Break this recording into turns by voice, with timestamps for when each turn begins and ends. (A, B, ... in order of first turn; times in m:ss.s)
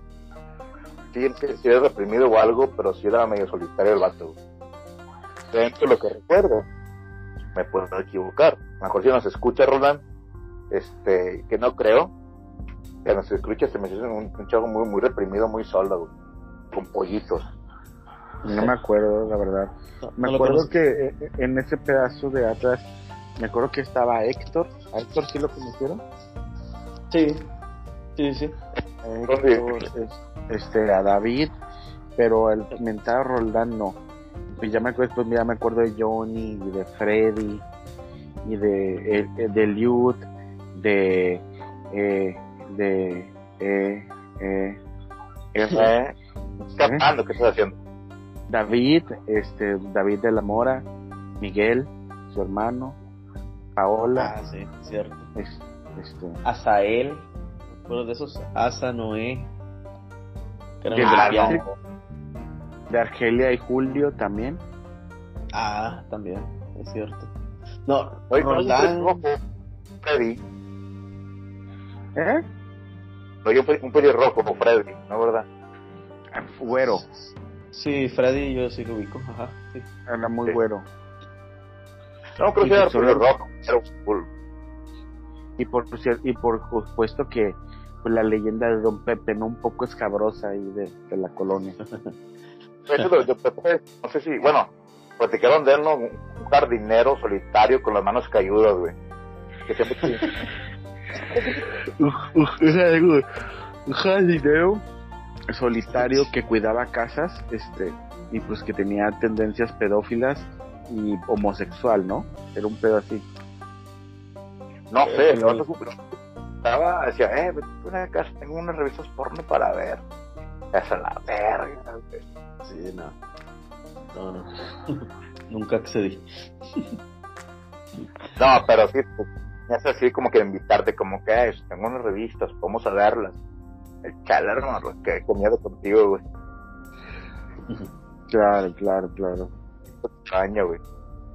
0:01.1-0:04.4 A
0:05.5-0:06.6 A
0:07.5-0:10.0 A
0:10.7-0:12.1 A
0:13.0-0:16.1 A
0:16.7-0:17.4 A
0:18.4-0:18.7 B
0:18.5-0:22.8 C
0:20.0-0:20.8 B
0:23.4-0:26.0 C
0:27.1-0:27.5 B
0:28.2-0:28.5 B
0:29.0-0:31.5 C
0:29.3-0:29.7 A
0:32.2-0:34.0 C
0:34.5-0:37.6 C
0:38.4-0:44.8 C
0:45.5-0:45.9 C
0:45.7-0:47.8 A
0:46.8-0:47.1 C
0:48.5-0:50.9 C
0:51.4-0:53.0 C
0:53.8-0:54.3 C
0:54.1-0:55.3 B
0:55.3-0:56.4 C
0:56.4-0:59.5 B
1:00.8-1:01.6 B
1:00.9-1:01.7 C
1:01.0-1:01.7 A
1:02.9-1:04.6 C
1:05.5-1:07.3 B
1:07.8-1:09.2 B
1:08.3-1:09.4 A
1:10.0-1:10.4 A
1:12.2-1:12.4 C
1:13.4-1:15.4 A
1:16.3-1:17.0 C
1:17.7-1:19.9 B
1:20.1-1:20.9 C
1:22.4-1:24.3 A
1:22.6-1:23.2 C
1:25.6-1:31.8 C
1:31.8-1:32.2 B
1:32.9-1:38.9 A
1:39.7-1:40.3 A
1:40.0-1:40.4 B
1:41.9-1:43.2 C
1:43.8-1:44.8 C
1:45.5-1:53.2 C
1:46.0-1:46.2 B
1:54.9-1:56.0 A
1:55.0-1:55.7 B
1:56.6-2:00.0 A
2:00.7-2:02.2 A
2:02.6-2:03.2 B
2:04.1-2:07.0 B
2:08.4-2:13.4 A
2:14.0-2:16.2 A
2:18.3-2:19.5 C
2:20.0-2:20.8 A